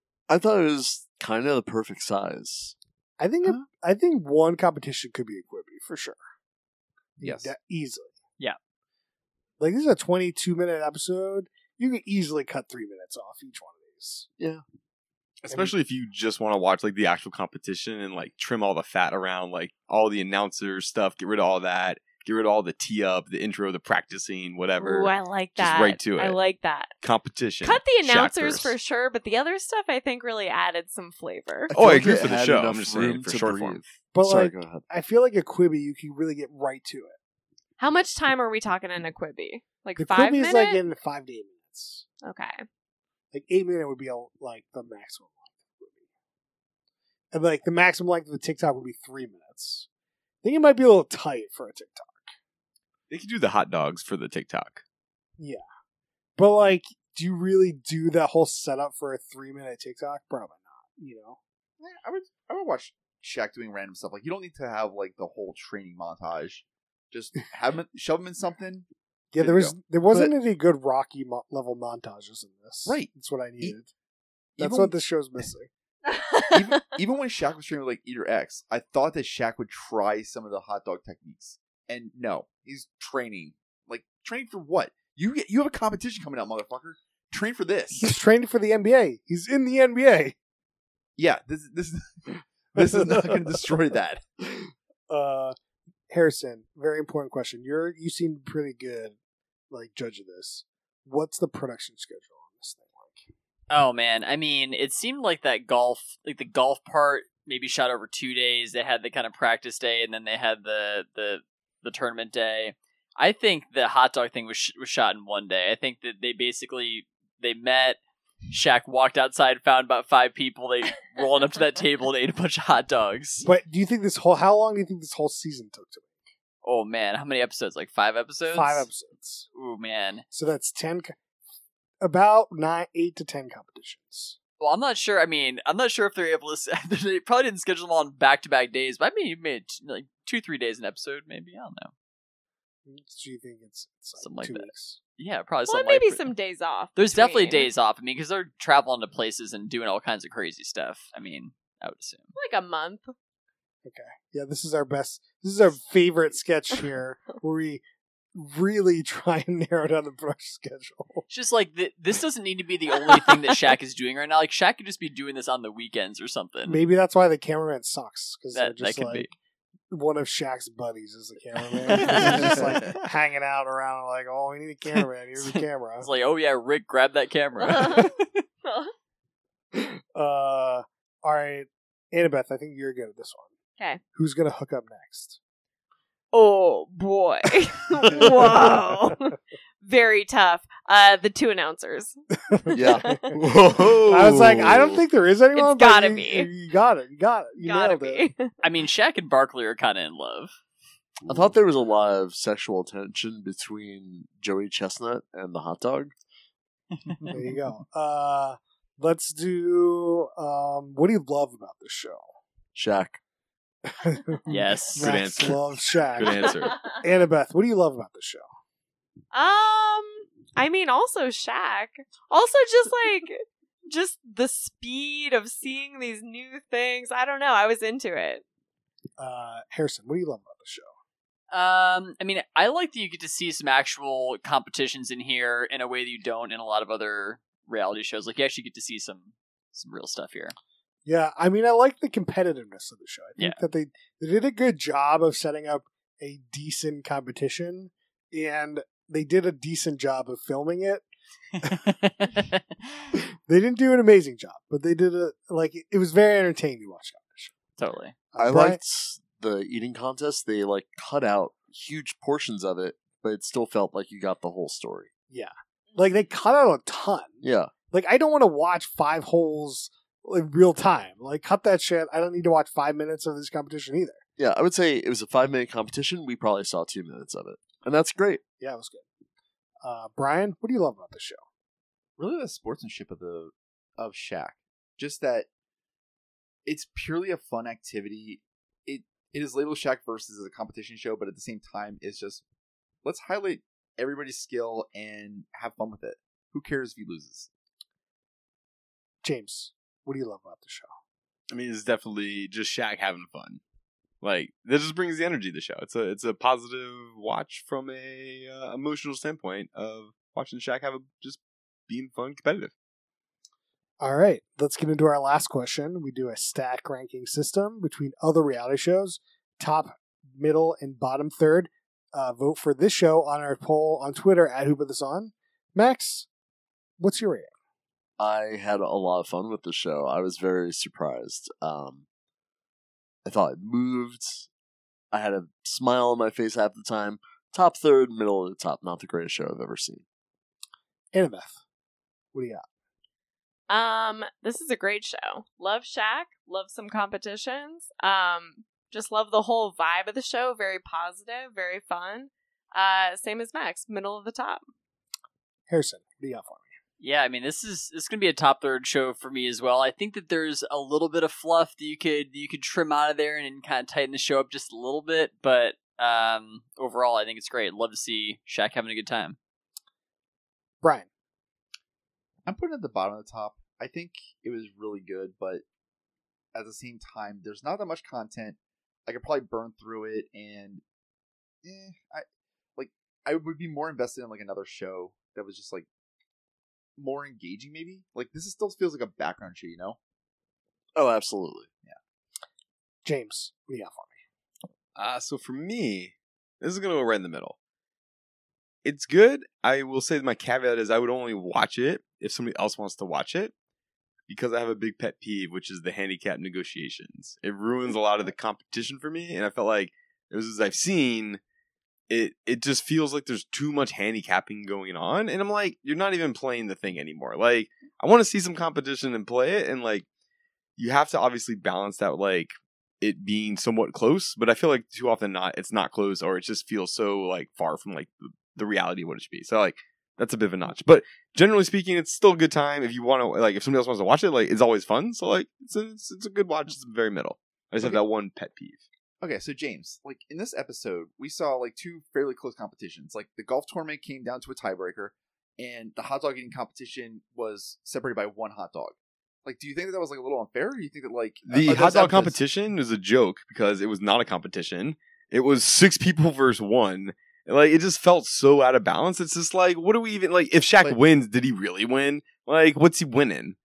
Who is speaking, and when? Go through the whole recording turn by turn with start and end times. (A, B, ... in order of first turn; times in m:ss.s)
0:00.3-0:02.8 A
0:03.2-0:06.2 B
0:07.2-0:07.5 C
0:07.2-0:08.1 B
0:09.6-0:14.3 B
0:15.4-0:26.4 D
0:24.8-0:26.9 E
0:27.0-0:28.8 D
0:27.6-0:31.7 E
0:31.7-0:33.8 D
0:31.7-0:34.8 A
0:34.1-0:37.2 B
0:37.8-0:40.8 E
0:40.0-0:42.0 B
0:42.2-0:42.6 E
0:43.3-0:46.0 B
0:47.3-0:49.9 B
0:50.4-0:52.3 B
0:53.1-0:54.8 D
0:56.4-1:01.4 B
1:01.8-1:08.9 C
1:09.3-1:13.9 B
1:09.4-1:10.3 C
1:12.9-1:13.8 C
1:14.6-1:15.0 C
1:14.6-1:15.7 B
1:16.1-1:16.8 E
1:16.5-1:28.2 C
1:28.0-1:30.4 B
1:31.2-1:34.2 C
1:32.8-1:33.7 B
1:34.5-1:35.6 B
1:36.1-1:39.2 B
1:39.7-1:43.3 B
1:43.7-1:58.0 F
1:58.5-2:03.5 F
2:03.4-2:06.1 B
2:06.6-2:08.9 F
2:08.5-2:09.5 B
2:09.6-2:10.2 F
2:10.3-2:11.2 B
2:12.0-2:14.4 B
2:14.6-2:21.9 F
2:22.9-2:25.0 B
2:24.2-2:26.3 F
2:25.7-2:27.7 E
2:27.0-2:32.3 F
2:32.4-2:33.1 E
2:33.8-2:37.8 B
2:38.4-2:41.2 B
2:41.3-2:46.8 F
2:46.7-2:49.3 B
2:48.6-2:49.3 F
2:49.9-2:56.1 B
2:51.8-2:52.9 F
2:55.0-2:58.3 F
2:57.6-2:58.9 E
2:59.7-3:03.5 B
3:04.1-3:05.4 B
3:06.3-3:12.2 E
3:08.1-3:08.8 B
3:12.5-3:12.8 B
3:12.7-3:15.0 A
3:12.7-3:13.3 E
3:14.1-3:18.2 B
3:15.6-3:16.5 E
3:17.6-3:18.5 E
3:18.6-3:20.5 F
3:21.2-3:21.6 C
3:21.3-3:26.1 A
3:27.3-3:32.3 B
3:32.8-3:33.2 A
3:33.9-3:38.5 B
3:34.5-3:35.1 F
3:35.0-3:35.6 D
3:36.2-3:37.0 D
3:39.3-3:48.4 E
3:49.2-3:50.9 B
3:51.5-4:00.6 F
4:01.1-4:11.0 B
4:11.7-4:12.6 F
4:13.5-4:17.5 B
4:17.8-4:18.1 F
4:18.3-4:18.8 B
4:18.4-4:25.1 A
4:25.3-4:27.4 B
4:27.4-4:27.7 A
4:27.9-4:34.2 B
4:34.4-4:38.4 A
4:38.6-4:39.0 B
4:39.8-4:41.4 B
4:42.2-4:45.5 C
4:46.6-4:52.4 C
4:53.0-4:57.5 C
4:59.2-5:00.9 B
5:01.5-5:03.6 D
5:04.2-5:12.7 D
5:14.0-5:26.3 B
5:27.0-5:27.5 B
5:28.2-5:32.0 A
5:33.2-5:34.5 A
5:35.1-5:40.0 A
5:41.1-5:41.6 B
5:42.3-5:42.6 B
5:43.7-5:54.6 E
5:55.7-5:56.7 B
5:57.0-6:09.4 F
6:10.8-6:11.1 B
6:12.5-6:15.6 C
6:16.5-6:20.8 C
6:21.6-6:22.2 C
6:22.8-6:25.9 C
6:27.0-6:30.0 C
6:31.0-6:31.7 A
6:33.0-6:34.2 B
6:35.0-6:37.6 D
6:38.8-6:43.5 D
6:44.3-6:51.4 D
6:52.1-7:00.1 D
7:00.8-7:18.8 D
7:19.2-7:32.4 C
7:31.5-7:43.6 D